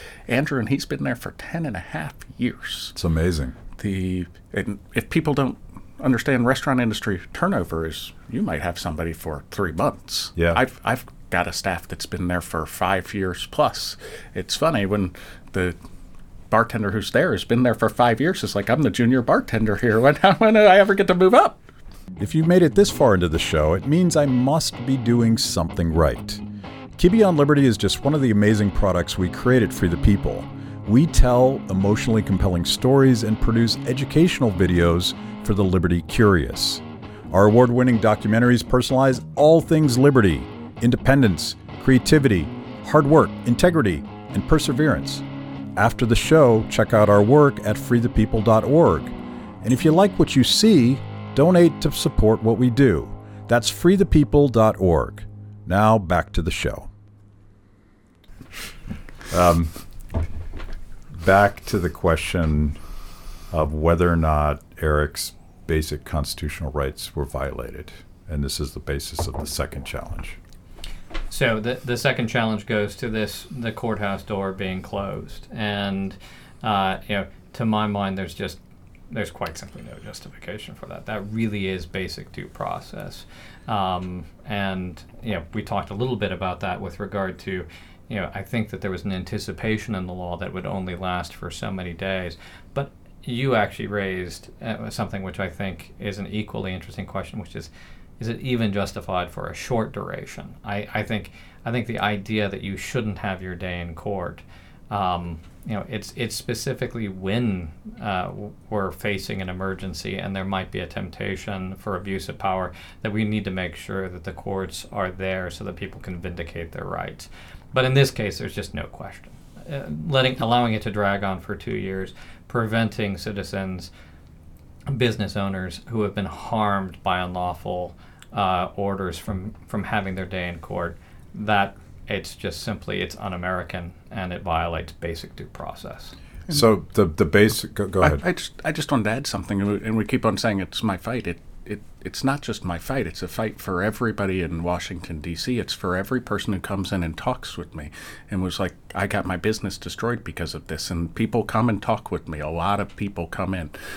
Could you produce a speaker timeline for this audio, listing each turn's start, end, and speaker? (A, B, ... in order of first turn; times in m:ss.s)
0:00.3-0:02.9 A
0:02.9-0:03.6 B
0:03.8-0:15.8 A
0:16.5-0:21.6 A
0:22.2-0:26.4 B
0:27.0-0:45.2 B
0:45.8-0:56.9 B
0:59.3-0:59.8 B
1:01.1-1:02.8 B
1:03.5-1:10.4 B
1:11.3-1:18.6 C
1:19.1-2:03.9 C
2:04.9-2:16.1 C
2:16.5-2:18.2 B
2:18.0-2:33.8 A